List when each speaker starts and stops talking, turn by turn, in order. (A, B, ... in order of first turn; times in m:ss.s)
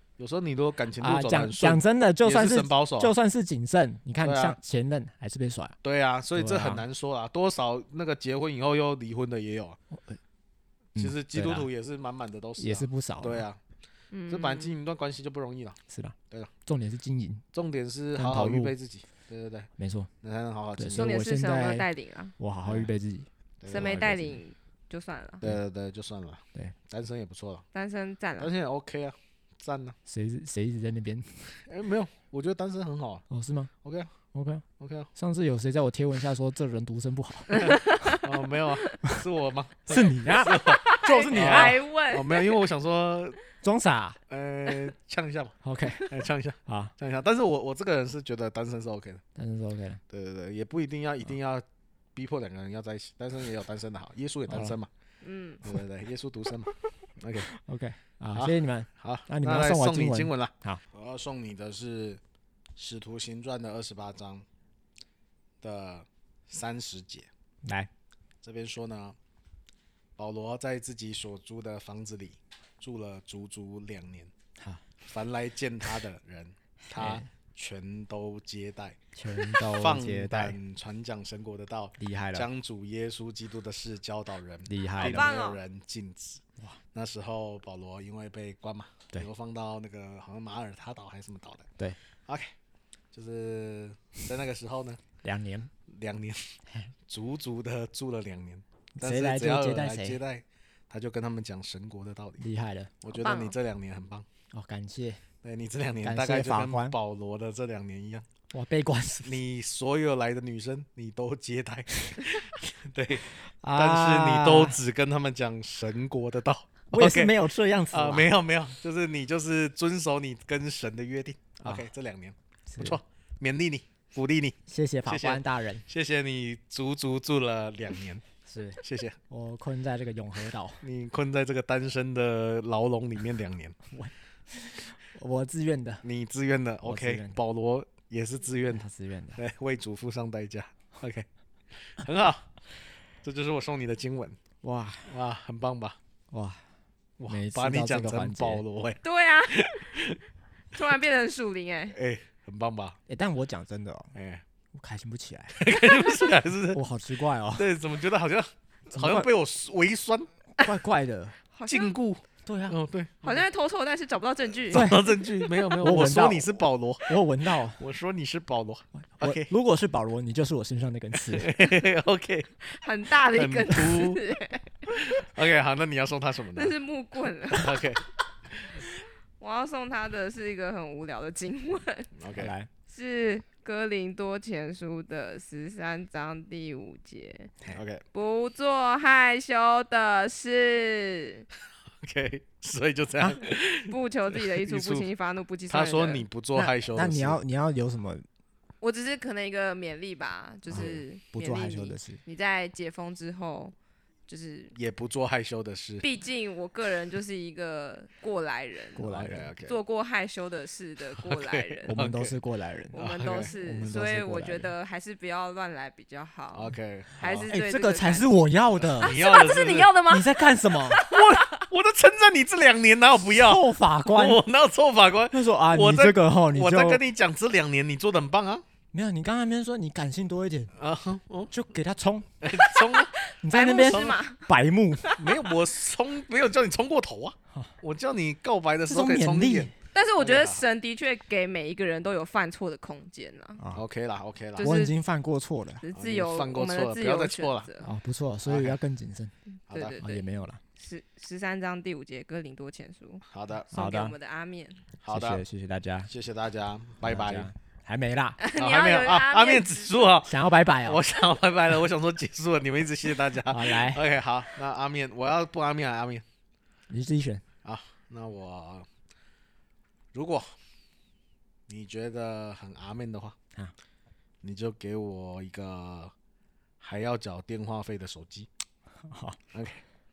0:00.2-0:03.1 A
0:01.0-0:05.8 B
0:04.2-0:04.6 A
0:05.8-0:09.8 A
0:06.4-0:06.8 B
0:11.0-0:11.7 B
0:11.0-0:13.6 A
0:12.6-0:13.4 B
0:14.1-0:14.7 C
0:14.3-0:15.8 A
0:15.9-0:17.4 B
0:17.5-0:19.7 A
0:18.2-0:18.7 B
0:19.8-0:20.1 B
0:20.2-0:21.2 A
0:20.8-0:21.9 B
0:21.0-0:22.4 C
0:22.4-0:24.4 B
0:23.6-0:24.3 A
0:23.7-0:25.4 C
0:25.4-0:27.7 A
0:27.7-0:28.5 C
0:28.4-0:30.0 A
0:30.1-0:31.5 B
0:31.7-0:33.2 A
0:33.3-0:33.7 B
0:33.8-0:34.1 A
0:34.3-0:37.7 B
0:34.8-0:35.1 A
0:37.5-0:38.3 C
0:37.6-0:43.4 A
0:39.9-0:41.8 B
0:40.6-0:42.6 C
0:43.6-0:44.2 B
0:44.3-0:49.2 A
0:45.6-0:46.1 B
0:46.7-0:46.9 B
0:49.4-0:50.0 B
0:50.1-0:51.6 A
0:52.2-0:54.9 A
0:54.5-0:54.8 B
0:55.2-0:55.6 C
0:55.6-0:57.5 A
0:57.5-1:00.8 B
0:58.3-1:02.2 A
1:02.8-1:04.4 A
1:05.6-1:07.3 A
1:07.6-1:07.9 B
1:08.4-1:09.2 A
1:10.2-1:14.3 A
1:14.6-1:14.8 B
1:15.1-1:19.0 A
1:16.9-1:17.3 B
1:19.2-1:20.6 B
1:19.5-1:26.4 A
1:22.0-1:22.5 B
1:24.7-1:25.3 B
1:25.0-1:25.6 C
1:26.9-1:31.7 A
1:32.3-1:32.5 A
1:33.1-1:35.0 A
1:35.2-1:35.7 B
1:35.9-1:42.4 A
1:39.0-1:40.2 B
1:42.4-1:42.9 B
1:43.0-1:44.3 A
1:43.2-1:43.6 C
1:44.5-1:45.2 B
1:45.4-1:48.3 A
1:46.0-1:47.0 B
1:48.5-1:49.4 B
1:49.2-1:57.3 A
1:53.6-1:54.8 B
1:56.9-1:58.3 B
1:57.9-2:08.3 A
2:01.6-2:01.9 B
2:02.7-2:03.0 B
2:04.7-2:05.8 B
2:08.5-2:10.8 B
2:08.8-2:09.2 A
2:10.8-2:13.8 A
2:13.9-2:16.0 B
2:16.0-2:18.8 A
2:16.8-2:17.4 B
2:18.7-2:19.4 B
2:19.4-2:21.3 A
2:21.9-2:22.5 A
2:23.2-2:24.4 A
2:24.6-2:25.1 B
2:25.1-2:26.0 A
2:26.3-2:26.6 B
2:27.2-2:30.2 A
2:27.3-2:28.6 B
2:29.0-2:29.9 C
2:30.7-2:32.0 C
2:31.9-2:33.0 A
2:33.1-2:34.1 B
2:34.2-2:34.4 A
2:34.7-2:35.7 B
2:35.6-2:36.8 A
2:36.7-2:37.7 B
2:37.6-2:40.3 A
2:38.9-2:39.3 B
2:40.6-2:41.4 B
2:41.5-2:41.9 C
2:41.7-2:43.4 A
2:42.4-2:42.8 B
2:43.2-2:44.9 C
2:44.7-2:49.5 A
2:44.7-2:47.8 B
2:49.2-2:51.5 B
2:51.2-2:52.7 A
2:52.7-2:54.9 C
2:53.2-2:54.2 A
2:54.9-2:56.8 A
2:56.6-2:57.8 C
2:57.5-2:58.8 A
2:59.4-3:02.1 C
3:02.2-3:02.5 A
3:02.3-3:02.7 B
3:02.9-3:07.5 C
3:07.6-3:08.0 A
3:08.1-3:11.5 C
3:12.0-3:15.1 A
3:13.9-3:16.2 C
3:15.7-3:17.4 A
3:16.6-3:18.2 B
3:18.8-3:23.7 C
3:20.7-3:22.2 B
3:20.7-3:21.0 A
3:24.3-3:24.7 C
3:24.8-3:26.0 A
3:26.0-3:29.1 C
3:29.0-3:29.5 B
3:29.1-3:29.8 A
3:29.6-3:31.9 C
3:31.2-3:32.3 A
3:31.9-3:33.0 B
3:32.9-3:38.3 C
3:32.9-3:33.6 A
3:33.6-3:34.7 B
3:36.5-3:37.5 A
3:37.5-3:39.2 B
3:39.0-3:40.0 A
3:39.0-3:41.6 C
3:40.0-3:41.0 B
3:41.0-3:48.6 A
3:43.2-3:44.4 B
3:45.3-3:47.0 B
3:48.9-3:50.7 B
3:50.8-3:51.5 A
3:51.5-3:52.3 B
3:52.4-3:53.1 A
3:52.5-3:55.4 C
3:53.4-3:55.1 B
3:53.7-3:54.1 A
3:55.2-4:00.6 A
3:58.9-3:59.7 B
3:59.9-4:03.6 C
4:03.7-4:04.6 A
4:04.6-4:04.9 C
4:04.6-4:05.8 B
4:05.8-4:07.9 C
4:05.9-4:07.7 A
4:07.8-4:09.3 B
4:08.4-4:08.8 A
4:09.7-4:10.2 C
4:09.7-4:10.0 A
4:10.0-4:10.6 B
4:10.8-4:14.8 C
4:13.3-4:13.7 A
4:13.7-4:14.1 B
4:15.0-4:15.4 A
4:15.1-4:16.1 B
4:16.1-4:17.5 A
4:17.0-4:18.4 B
4:18.4-4:20.0 C
4:18.6-4:26.2 A
4:20.2-4:21.0 B
4:23.5-4:24.0 B
4:26.9-4:27.4 B
4:27.6-4:28.9 A
4:30.1-4:30.5 A
4:31.7-4:33.4 A
4:34.4-4:36.1 A
4:36.8-4:38.5 A
4:39.0-4:39.4 B
4:39.5-4:39.8 A